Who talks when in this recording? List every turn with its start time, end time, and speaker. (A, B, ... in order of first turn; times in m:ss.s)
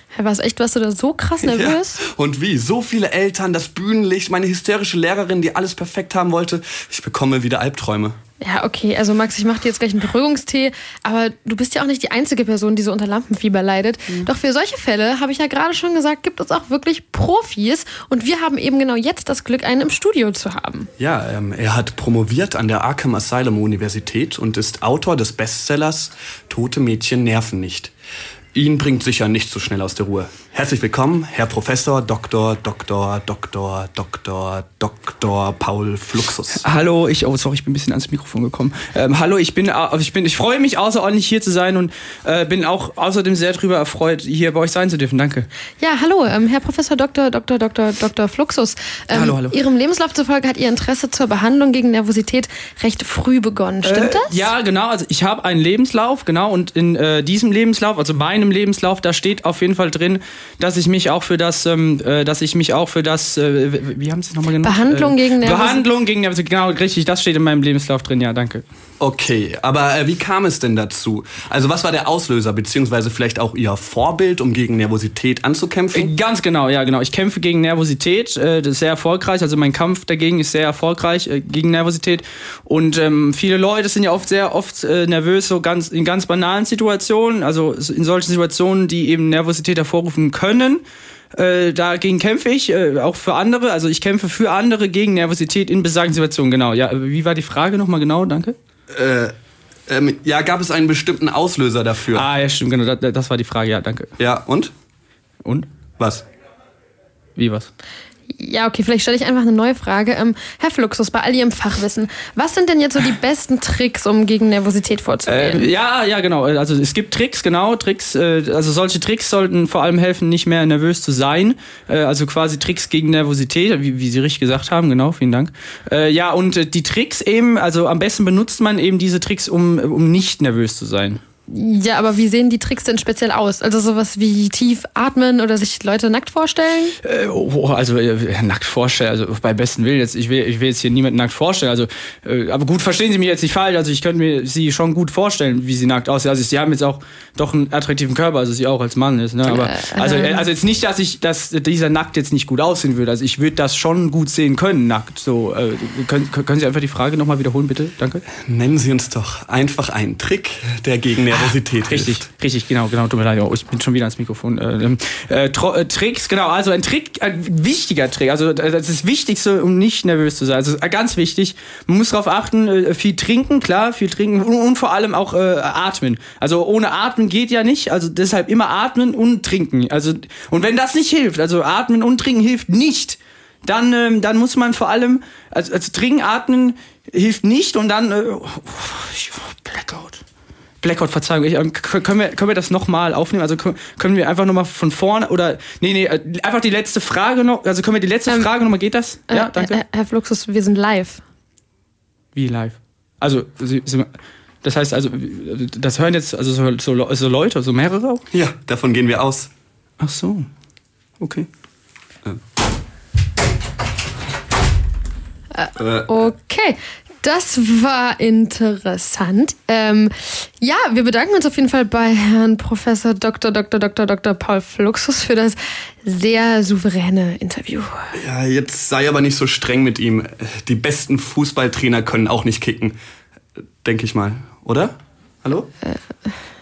0:00.1-0:02.0 A
0:01.4-0:08.2 B
0:08.4-0:20.9 A
0:21.0-0:27.9 B
0:28.5-0:36.6 B
0:36.6-0:45.5 C
0:45.8-0:54.4 A
0:49.1-0:49.6 C
0:53.8-1:08.6 C
1:04.6-1:05.8 A
1:09.0-1:16.1 B
1:15.9-1:30.8 C
1:31.3-1:38.6 C
1:38.9-1:39.3 B
1:39.9-1:42.3 B
1:42.1-1:44.1 C
1:44.2-1:44.7 B
1:46.0-1:46.2 B
1:47.4-1:47.7 C
1:48.3-1:55.7 A
1:55.3-2:11.2 C
2:11.5-2:17.0 A
2:17.0-2:38.2 C
2:29.4-2:30.5 A
2:38.4-2:42.2 B
2:41.9-3:10.2 C
3:10.8-3:19.8 C
3:19.3-3:21.2 A
3:22.4-3:24.1 C
3:24.6-3:28.2 C
3:28.3-3:29.5 B
3:30.0-3:30.5 C
3:31.2-3:31.5 C
3:35.5-3:48.2 A
3:35.8-3:36.2 B
3:48.1-3:53.0 B
3:53.8-3:55.7 B